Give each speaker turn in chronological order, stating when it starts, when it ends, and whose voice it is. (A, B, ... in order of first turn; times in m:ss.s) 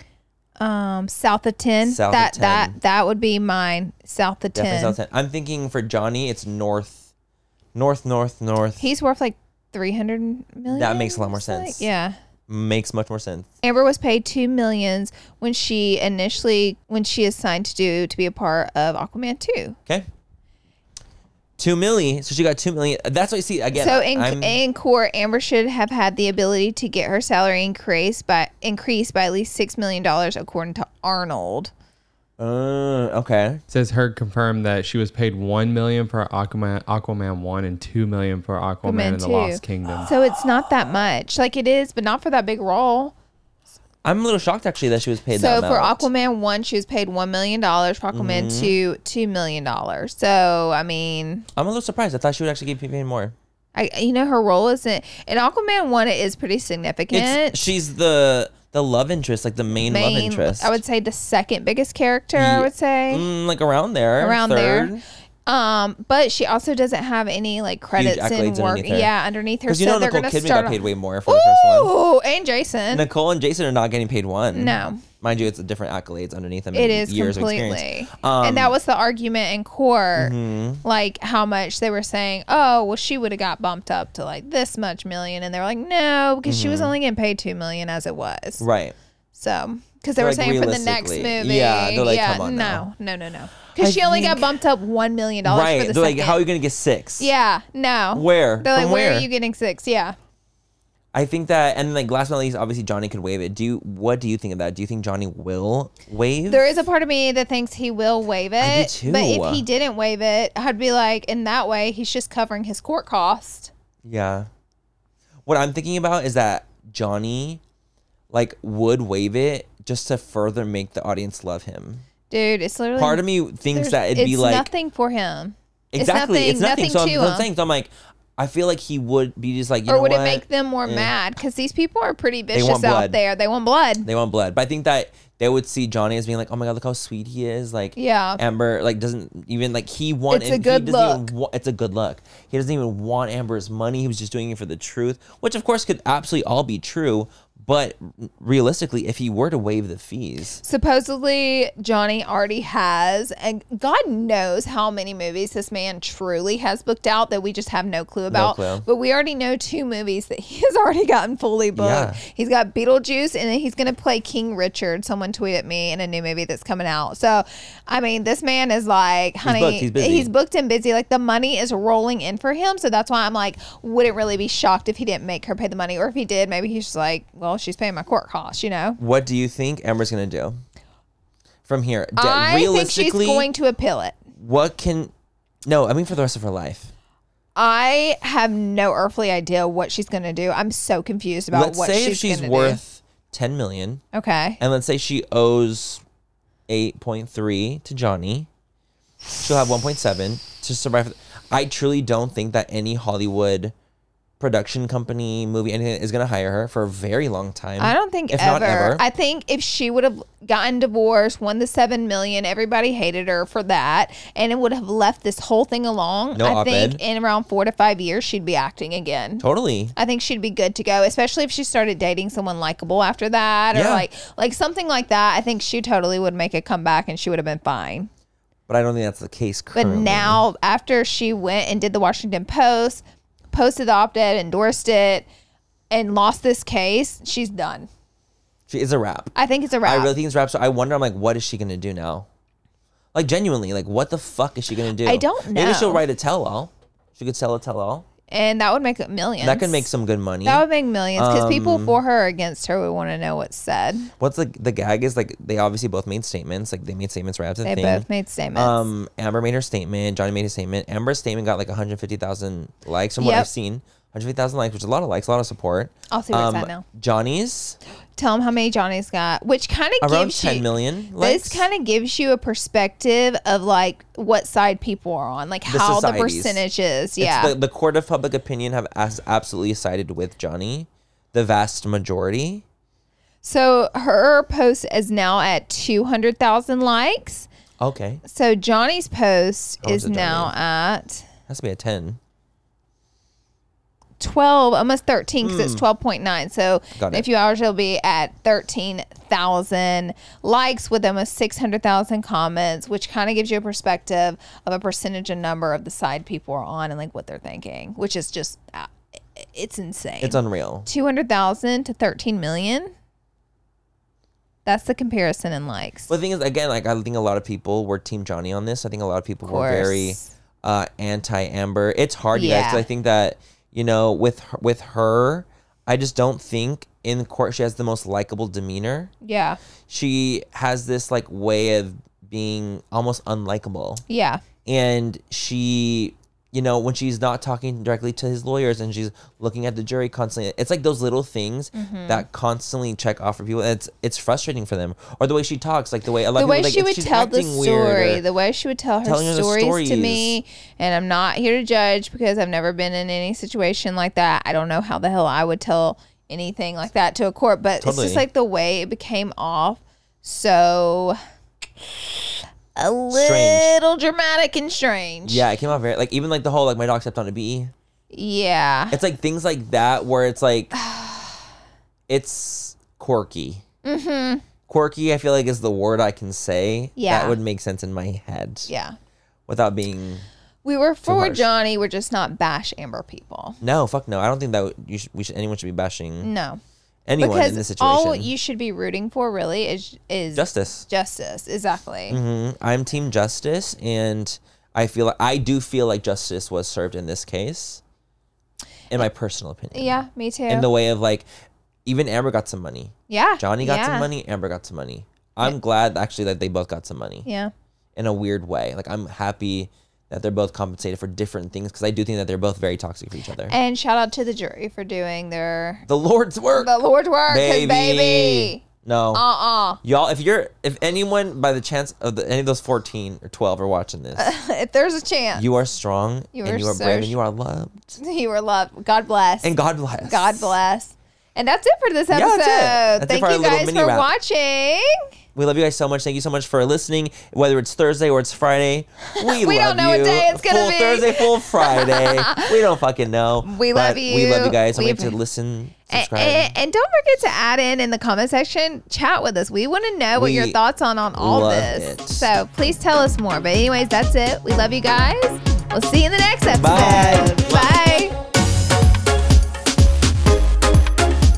0:00.6-0:05.0 A
0:01.8-0:02.8 B
0:04.5-0:07.1 B
0:07.8-0:08.8 B
0:08.8-0:12.2 A
0:10.7-0:11.9 B
0:12.5-0:13.5 B
0:13.6-0:19.8 A
0:21.6-0:24.6 B
0:23.7-0:31.7 A
0:32.4-0:33.6 B
0:33.7-0:40.1 C
0:38.8-0:43.1 A
0:44.0-0:46.1 B
0:45.3-0:51.5 A
0:48.1-0:48.8 B
0:51.6-0:53.4 B
0:53.8-0:57.7 A
0:57.1-1:00.8 B
0:59.9-1:03.3 A
1:02.4-1:05.0 B
1:04.2-1:04.9 A
1:05.5-1:13.1 A
1:08.0-1:09.1 B
1:09.7-1:11.9 B
1:12.9-1:18.7 B
1:14.5-1:15.0 A
1:16.7-1:28.6 A
1:20.2-1:20.8 B
1:26.4-1:26.9 B
1:28.6-1:29.0 B
1:29.3-1:36.4 A
1:30.2-1:32.8 B
1:33.8-1:34.6 B
1:35.4-1:37.3 B
1:37.2-1:40.2 A
1:38.1-1:39.3 B
1:41.1-1:46.6 B
1:46.5-1:53.7 A
1:48.6-1:49.6 B
1:54.0-1:54.5 B
1:55.5-1:57.6 B
1:58.3-2:02.0 B
2:02.3-2:07.5 A
2:03.0-2:04.7 B
2:05.9-2:11.1 B
2:09.9-2:14.1 A
2:12.5-2:13.2 B
2:14.0-2:30.6 B
2:18.0-2:18.4 A
2:20.3-2:21.3 A
2:30.6-2:59.0 A
2:38.3-2:38.9 B
2:41.8-2:42.2 B
2:49.4-2:50.3 B
2:59.0-3:00.6 B
3:01.7-3:03.5 B
3:02.2-3:04.2 A
3:04.4-3:05.1 B
3:05.6-3:06.9 B
3:07.6-3:12.8 A
3:11.5-3:14.0 B
3:14.1-3:14.6 A
3:14.6-3:16.0 B
3:16.7-3:18.5 B
3:19.4-3:23.7 B
3:24.4-3:29.0 B
3:27.8-3:39.4 A
3:36.4-3:37.0 B
3:39.4-3:39.9 B
3:40.0-3:48.1 A
3:43.7-3:44.1 B
3:48.7-3:50.4 B
3:49.7-3:55.3 A
3:55.9-3:57.9 A
3:58.7-4:02.3 B
3:59.4-4:00.1 A
4:03.1-4:08.1 B
4:05.0-4:06.0 A
4:08.3-4:09.9 A
4:09.4-4:10.6 B
4:10.4-4:14.1 A
4:11.2-4:12.0 B
4:14.2-4:27.8 B
4:17.6-4:18.9 A
4:23.2-4:23.5 A
4:26.1-4:26.8 A
4:28.2-4:30.7 A
4:30.0-4:31.7 B
4:31.2-4:37.6 A
4:35.7-4:36.6 B
4:37.2-4:42.6 B
4:43.4-4:47.5 A
4:47.8-4:48.2 B
4:48.2-4:51.3 A
4:49.8-4:50.5 B
4:51.5-4:52.2 B
4:54.2-5:12.9 A
4:55.4-4:55.8 B
4:56.9-4:57.3 B
5:10.2-5:10.9 B
5:14.7-5:16.1 A
5:16.1-5:29.1 B
5:19.4-5:20.3 A
5:22.3-5:22.8 A
5:29.2-5:29.6 A
5:29.9-5:34.0 B
5:34.1-5:34.4 A
5:34.6-5:48.2 B
5:41.7-5:42.2 A
5:46.4-6:01.2 A
5:49.0-5:50.4 B
5:57.8-5:58.3 B
6:02.8-6:05.4 A
6:03.1-6:03.7 B
6:05.3-6:07.7 B
6:08.1-6:09.0 A
6:08.9-6:10.7 B
6:10.7-6:11.4 A
6:12.1-6:13.6 B
6:13.8-6:14.4 A
6:14.7-6:18.7 B
6:17.0-6:17.4 A
6:18.7-6:19.0 A
6:19.5-6:20.3 B
6:20.6-6:23.6 A
6:21.0-6:21.5 B
6:23.6-6:26.3 B
6:26.2-6:26.6 A
6:27.1-6:28.3 B
6:27.2-6:32.2 A
6:30.4-6:30.9 B
6:32.1-6:37.8 B
6:38.9-6:41.3 B
6:39.7-6:40.7 A
6:41.8-6:47.3 B
6:43.1-6:44.1 A
6:47.3-6:47.5 A
6:48.0-6:53.6 B
6:53.5-6:55.8 A
6:55.9-6:59.2 B
6:56.6-6:58.6 A
6:59.1-6:59.8 A
6:59.8-7:04.3 B
7:04.2-7:05.4 A
7:05.4-7:08.0 B
7:06.3-7:07.2 A
7:08.0-7:14.9 A
7:09.4-7:10.6 B
7:12.1-7:14.1 B
7:15.4-7:26.5 B
7:19.2-7:22.5 A
7:23.4-7:25.2 A
7:25.9-7:38.2 A
7:30.2-7:30.6 B
7:31.2-7:32.3 B
7:36.6-7:37.7 B